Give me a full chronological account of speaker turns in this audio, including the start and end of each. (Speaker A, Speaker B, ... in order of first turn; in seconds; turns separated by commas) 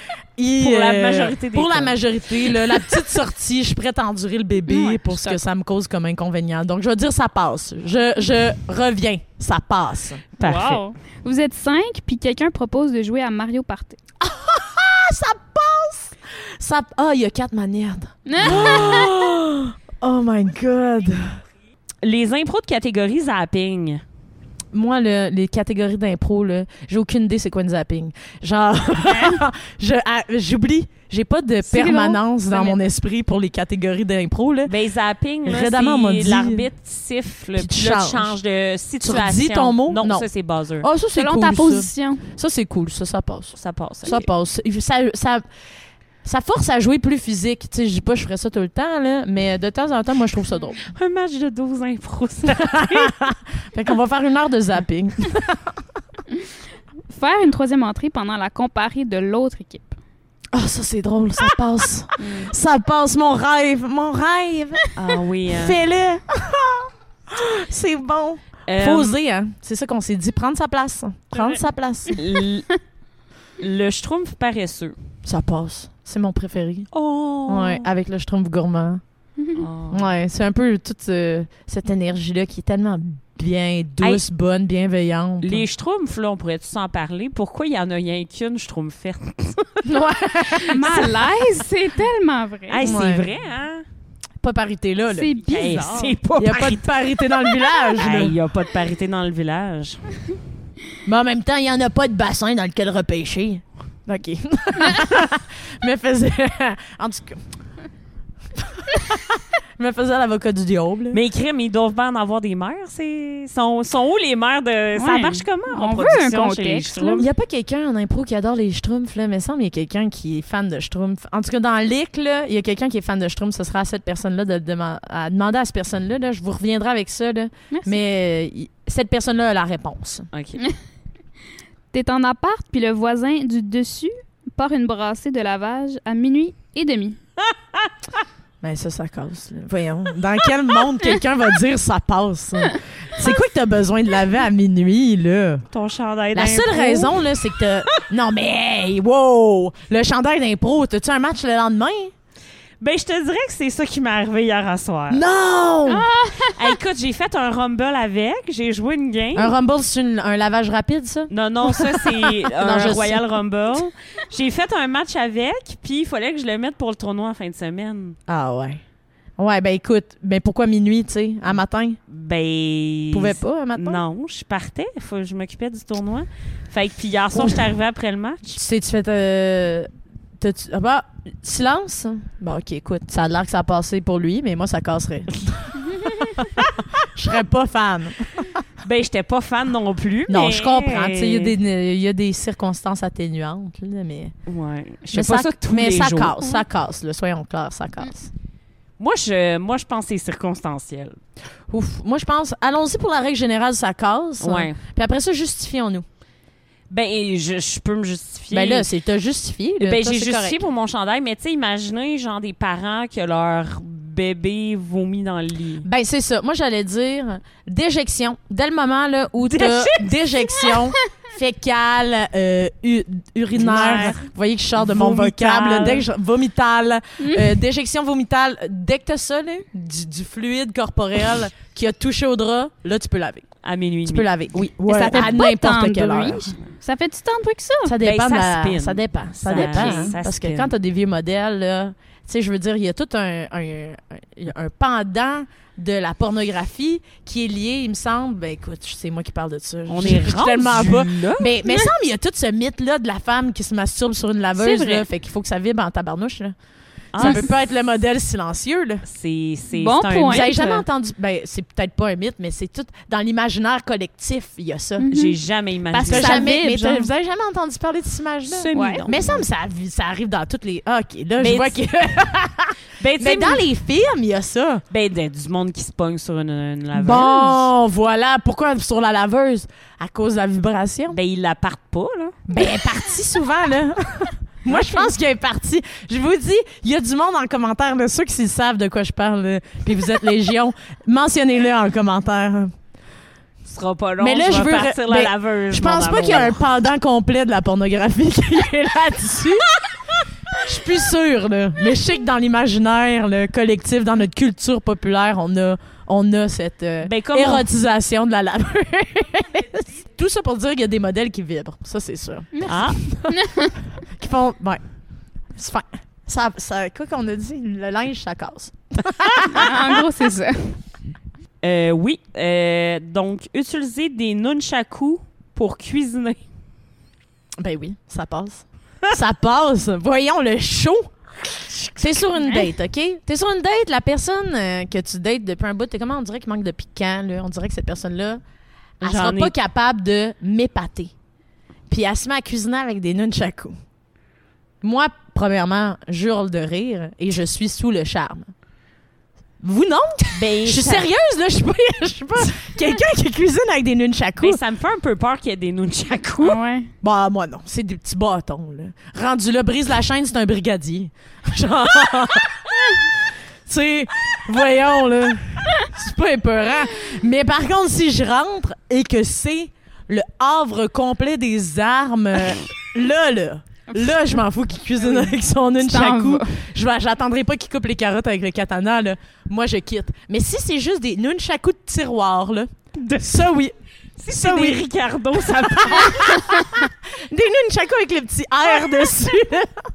Speaker A: 0.4-10.3, Speaker B: 0.6-2.0, Speaker B: 4.7-5.0, Speaker C: 4.9-5.3, Speaker B: 10.4-10.8, Speaker C: 10.4-14.0, Speaker A: 14.2-21.3, Speaker C: 18.3-19.1, Speaker B: 22.0-24.0, Speaker A: 24.7-34.7, Speaker C: 29.1-29.4, Speaker B: 31.7-32.8, Speaker B: 34.6-40.9, Speaker A: 35.4-36.7, Speaker A: 37.6-38.4, Speaker A: 39.0-40.3, Speaker A: 40.8-45.4, Speaker C: 41.1-42.2, Speaker B: 43.5-44.3, Speaker A: 46.2-50.8, Speaker B: 50.8-53.1, Speaker A: 52.7-55.6, Speaker C: 57.1-59.9, Speaker A: 60.5-64.9, Speaker C: 62.2-62.5, Speaker B: 65.0-65.8, Speaker A: 65.5-72.2, Speaker B: 68.7-69.2, Speaker B: 71.3-72.7, Speaker B: 73.6-75.0, Speaker A: 75.2-76.9, Speaker B: 76.9-77.9, Speaker A: 77.5-79.0, Speaker B: 79.6-80.1, Speaker A: 79.9-85.7, Speaker B: 85.4-89.8, Speaker A: 89.8-91.1, Speaker B: 90.6-91.2, Speaker C: 90.8-93.0, Speaker B: 92.7-93.8, Speaker A: 92.8-93.3, Speaker A: 94.4-95.3, Speaker C: 95.1-96.2, Speaker B: 95.4-96.9, Speaker A: 96.3-98.4, Speaker B: 98.0-100.0, Speaker A: 101.0-107.4, Speaker A: 108.6-111.2, Speaker B: 111.1-117.3, Speaker C: 115.0-117.3, Speaker A: 117.2-130.3, Speaker C: 127.7-128.0, Speaker B: 130.3-130.6, Speaker C: 131.9-137.2, Speaker A: 138.6-145.7, Speaker B: 145.7-147.2, Speaker A: 146.3-152.1, Speaker B: 152.8-155.2, Speaker A: 155.1-156.1, Speaker C: 155.9-156.7, Speaker B: 156.5-159.5, Speaker A: 159.3-163.2, Speaker B: 161.3-168.2, Speaker A: 168.3-168.8, Speaker A: 169.4-172.0, Speaker B: 172.1-178.6, Speaker A: 173.1-174.0, Speaker A: 177.3-177.6, Speaker A: 178.6-188.6, Speaker B: 188.8-191.6, Speaker A: 190.3-194.3, Speaker B: 194.5-196.6, Speaker A: 195.1-198.3, Speaker B: 199.0-201.2, Speaker A: 201.7-206.1, Speaker B: 204.4-204.8, Speaker B: 206.9-208.9, Speaker A: 208.5-210.6, Speaker B: 209.8-215.9, Speaker A: 215.8-233.5, Speaker B: 219.4-220.2, Speaker C: 220.7-220.9, Speaker B: 223.6-226.1, Speaker C: 227.2-227.6, Speaker B: 233.6-234.3, Speaker A: 234.1-236.5, Speaker C: 234.9-238.0, Speaker A: 237.8-256.5, Speaker B: 238.0-240.7, Speaker C: 239.5-240.2, Speaker B: 249.9-251.5, Speaker C: 254.6-255.1, Speaker B: 257.1-257.5, Speaker A: 257.1-259.0, Speaker C: 257.2-257.5, Speaker B: 259.1-260.9, Speaker C: 259.7-260.5, Speaker A: 260.3-265.1, Speaker C: 265.0-265.4, Speaker B: 265.1-266.5, Speaker C: 265.9-267.1, Speaker A: 266.1-274.8, Speaker B: 268.5-269.4, Speaker C: 268.7-269.1, Speaker B: 271.4-271.8, Speaker B: 273.0-273.7, Speaker B: 274.9-277.7, Speaker A: 276.9-281.2, Speaker B: 281.1-282.4, Speaker A: 282.5-292.7, Speaker B: 293.6-296.6, Speaker A: 294.2-299.7, Speaker A: 300.5-313.4, Speaker B: 307.0-307.7, Speaker B: 312.7-313.0, Speaker C: 313.3-313.7, Speaker A: 314.0-314.8, Speaker A: 315.5-319.7, Speaker C: 319.5-320.8, Speaker B: 321.6-326.4, Speaker A: 327.6-338.4, Speaker C: 332.4-332.7, Speaker A: 339.0-341.1, Speaker B: 339.0-339.5, Speaker A: 341.9-343.7, Speaker A: 344.8-348.5, Speaker A: 349.6-354.6, Speaker B: 350.4-351.1, Speaker B: 354.4-356.6, Speaker C: 356.4-356.9, Speaker A: 357.0-362.6, Speaker A: 363.7-383.7, Speaker C: 373.9-374.3, Speaker C: 375.8-376.5, Speaker B: 383.0-383.4, Speaker B: 384.2-386.4, Speaker A: 384.3-384.9, Speaker A: 385.4-389.8